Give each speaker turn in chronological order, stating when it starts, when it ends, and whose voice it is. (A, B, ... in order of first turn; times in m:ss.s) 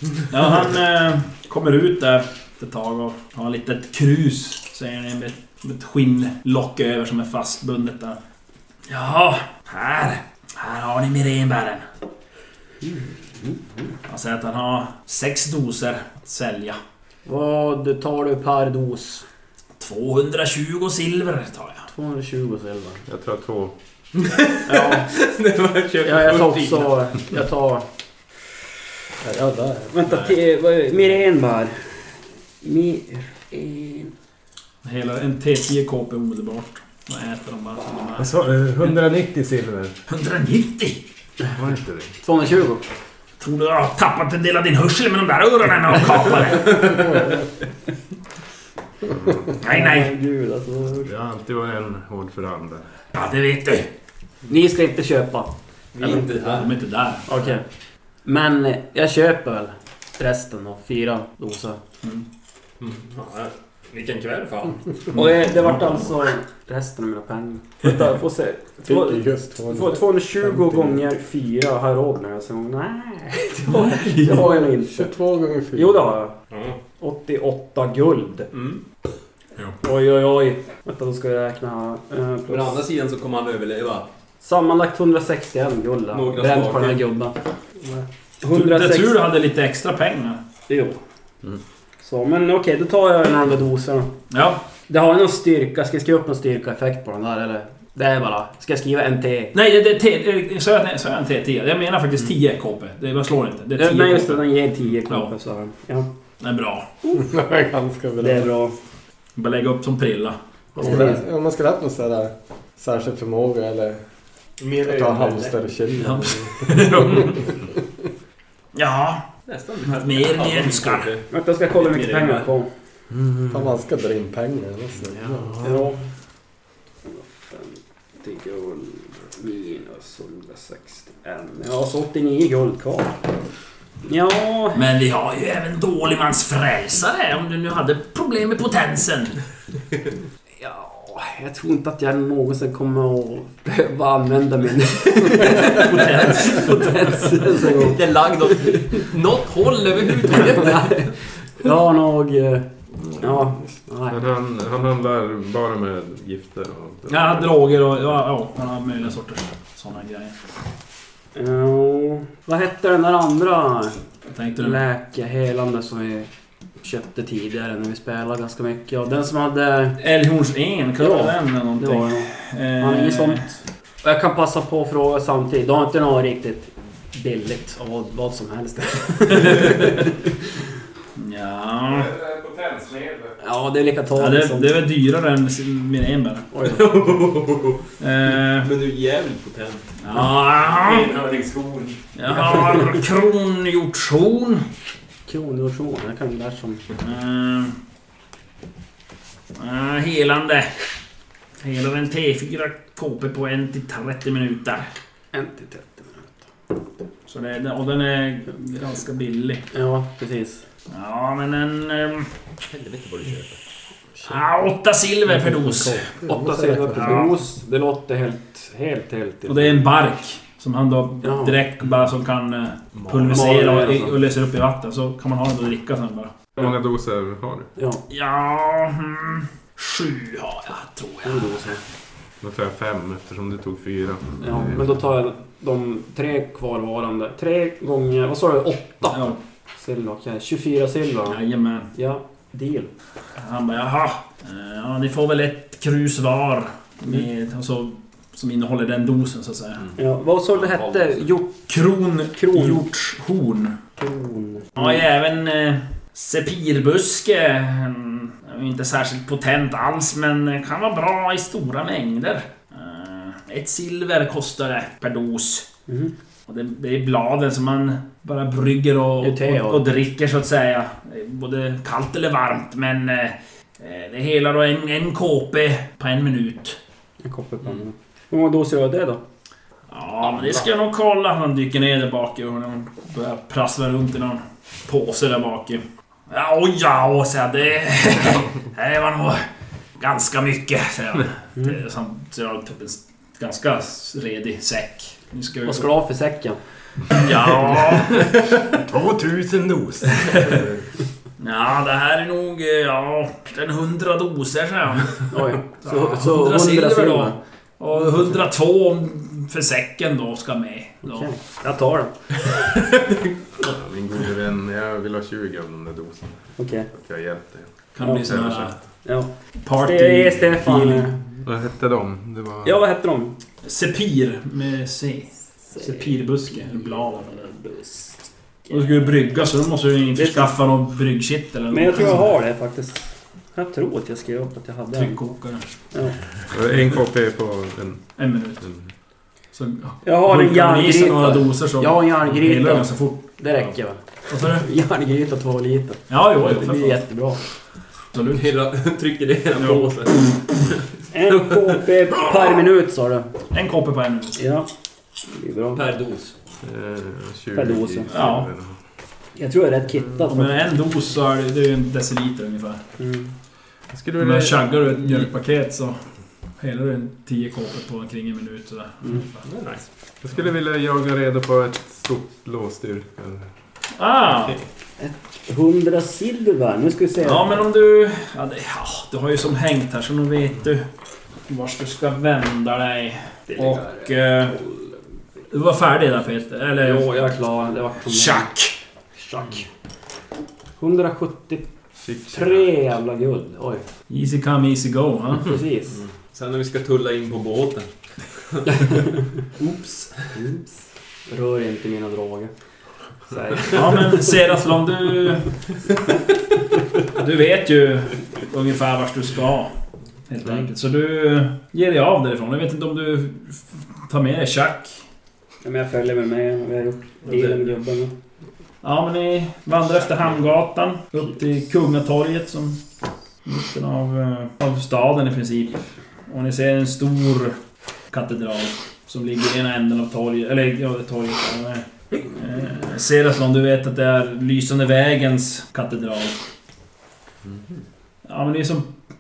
0:00.3-0:08.2 A
0:08.9-0:11.9 A
0:12.8-0:13.9 B
0:14.1-0:16.8 A
0:17.3-0:19.2 B
0:19.8-0:21.9 A
0:21.9-0:23.0 B
0:23.1-0:23.8 C
0:24.2-0:26.9 D
0:24.7-0:25.1 B
0:26.0-0:27.9 B
0:29.2-0:30.0 E
0:29.9-0:32.1 B
0:32.6-0:34.1 B
0:34.8-0:38.3 A
0:38.2-0:40.0 C
0:40.1-0:41.0 A
0:41.5-0:42.2 C
0:42.2-0:42.8 B
0:43.4-0:47.1 A
0:49.1-0:49.5 C
0:49.6-0:50.1 A
0:49.6-0:51.1 B
0:50.9-0:52.9 C
0:53.1-0:53.9 A
0:54.5-0:56.6 B
0:55.9-0:56.8 D
0:56.1-0:57.3 A
0:57.3-0:57.6 B
0:58.2-1:01.8 B
1:02.8-1:05.2 D
1:05.1-1:15.1 B
1:05.3-1:06.1 A
1:08.8-1:11.0 E
1:13.7-1:14.6 A
1:14.2-1:16.1 E
1:15.7-1:16.4 B
1:16.5-1:16.8 D
1:17.0-1:18.5 B
1:18.5-1:18.8 D
1:19.8-1:22.8 B
1:22.5-1:24.1 D
1:24.4-1:27.4 B
1:26.1-1:27.1 D
1:28.4-1:29.2 B
1:28.5-1:30.4 A
1:30.7-1:31.0 B
1:32.0-1:34.1 B
1:34.3-1:34.6 A
1:34.9-1:39.5 B
1:39.5-1:44.5 A
1:43.8-1:46.1 B
1:45.1-1:45.3 A
1:46.4-1:46.9 A
1:47.2-1:48.5 E
1:48.2-1:48.8 B
1:49.4-1:50.4 A
1:50.8-1:51.2 B
1:50.8-1:54.0 E
1:54.6-1:55.6 D
1:54.8-1:57.3 E
1:56.0-1:57.4 A
1:58.7-1:59.3 A
1:59.5-2:01.3 D
1:59.8-2:01.1 A
2:01.3-2:02.7 B
2:01.8-2:02.4 D
2:03.5-2:05.7 E
2:05.6-2:06.0 B
2:07.1-2:13.2 B
2:14.0-2:14.8 B
2:14.7-2:19.4 A
2:20.6-2:29.0 B
2:25.4-2:27.4 A
2:27.6-2:31.1 D
2:30.2-2:32.7 B
2:33.2-2:34.2 B
2:34.1-2:37.6 C
2:37.1-2:40.4 A
2:41.4-2:44.0 B
2:44.3-2:44.8 A
2:44.6-2:46.3 B
2:46.8-2:50.0 B
2:50.0-2:53.5 A
2:51.0-3:00.3 B
2:59.5-2:59.8 A
3:01.2-3:02.1 A
3:01.9-3:03.4 C
3:03.4-3:04.8 B
3:04.2-3:06.5 A
3:06.5-3:07.1 B
3:06.6-3:07.8 D
3:08.0-3:08.7 A
3:08.5-3:10.0 D
3:10.0-3:11.1 A
3:10.8-3:11.9 D
3:11.2-3:11.9 C
3:12.2-3:14.7 A
3:12.5-3:12.9 B
3:15.3-3:16.8 B
3:17.0-3:17.8 A
3:19.6-3:20.7 A
3:21.6-3:24.9 A
3:25.3-3:26.3 B
3:27.3-3:29.6 A
3:29.7-3:30.6 B
3:30.9-3:32.3 A
3:32.7-3:33.6 D
3:34.2-3:36.1 A
3:35.3-3:37.2 E
3:36.3-3:39.9 B
3:36.9-3:37.4 A
3:39.5-3:46.3 A
3:41.2-3:41.6 B
3:43.0-3:43.5 D
3:43.3-3:44.2 B
3:46.6-3:47.7 C
3:47.8-3:48.0 B
3:48.1-3:51.8 A
3:51.2-3:51.8 B
3:52.4-3:54.8 C
3:54.4-4:01.4 B
3:59.1-3:59.4 A
4:01.3-4:01.9 A
4:01.9-4:02.9 B
4:03.4-4:09.9 A
4:10.0-4:11.6 B
4:10.5-4:11.3 D
4:11.7-4:13.8 A
4:12.4-4:12.8 B
4:14.0-4:15.0 B
4:14.8-4:25.7 A
4:25.9-4:26.1 B
4:26.5-4:36.8 A
4:29.2-4:29.8 B
4:37.2-4:39.2 B
4:39.9-4:49.5 A
4:50.0-4:55.9 A
4:55.7-4:56.6 B
4:57.1-4:58.3 A
4:58.7-5:00.8 C
5:01.4-5:11.3 A
5:05.3-5:07.4 B
5:11.0-5:12.5 B
5:12.9-5:13.2 D
5:13.6-5:18.8 C
5:16.6-5:16.9 B
5:18.0-5:18.8 A
5:18.0-5:18.4 B
5:19.0-5:21.2 B
5:19.6-5:21.1 A
5:21.4-5:22.8 C
5:22.6-5:23.4 B
5:23.6-5:27.5 A
5:25.8-5:29.2 B
5:28.7-5:32.3 A
5:30.2-5:30.5 B
5:31.7-5:35.2 B
5:34.9-5:35.6 A
5:35.9-5:36.2 B
5:36.5-5:38.0 C
5:38.2-5:38.7 A
5:39.5-5:43.7 A
5:40.0-5:47.4 B
5:44.3-5:44.7 A
5:46.1-5:47.0 A
5:48.1-5:48.5 A
5:48.3-5:51.7 D
5:49.6-5:50.7 A
5:51.1-5:53.3 B
5:53.5-5:54.4 A
5:54.4-5:54.7 B
5:55.3-5:55.8 B
5:55.7-5:56.3 D
5:56.6-5:58.8 C
5:57.6-5:58.1 B
5:58.1-5:58.5 A
5:59.4-6:00.6 B
6:00.3-6:02.8 A
6:03.0-6:03.3 B
6:03.9-6:04.8 C
6:04.2-6:06.0 A
6:06.6-6:09.4 A
6:09.4-6:09.8 D
6:10.2-6:13.5 C
6:14.0-6:14.6 A
6:15.0-6:17.6 B
6:17.2-6:20.8 A
6:21.5-6:24.6 A
6:23.5-6:24.8 B
6:25.5-6:27.2 A
6:26.8-6:28.5 B
6:28.0-6:28.8 A
6:29.2-6:29.7 B
6:30.8-6:31.7 B
6:32.0-6:32.7 C
6:32.3-6:33.9 B
6:34.1-6:35.6 A
6:35.4-6:36.0 B
6:35.9-6:37.9 D
6:38.4-6:38.7 D
6:39.6-6:40.3 D
6:40.4-6:40.7 B
6:41.3-6:42.5 B
6:43.3-6:44.1 B
6:43.7-6:45.6 A
6:47.1-6:49.7 A
6:50.3-6:55.0 A
6:55.6-6:58.1 B
6:57.3-6:57.6 D
6:58.8-7:02.8 A
7:03.4-7:07.6 A
7:08.1-7:16.4 A
7:18.3-7:18.9 A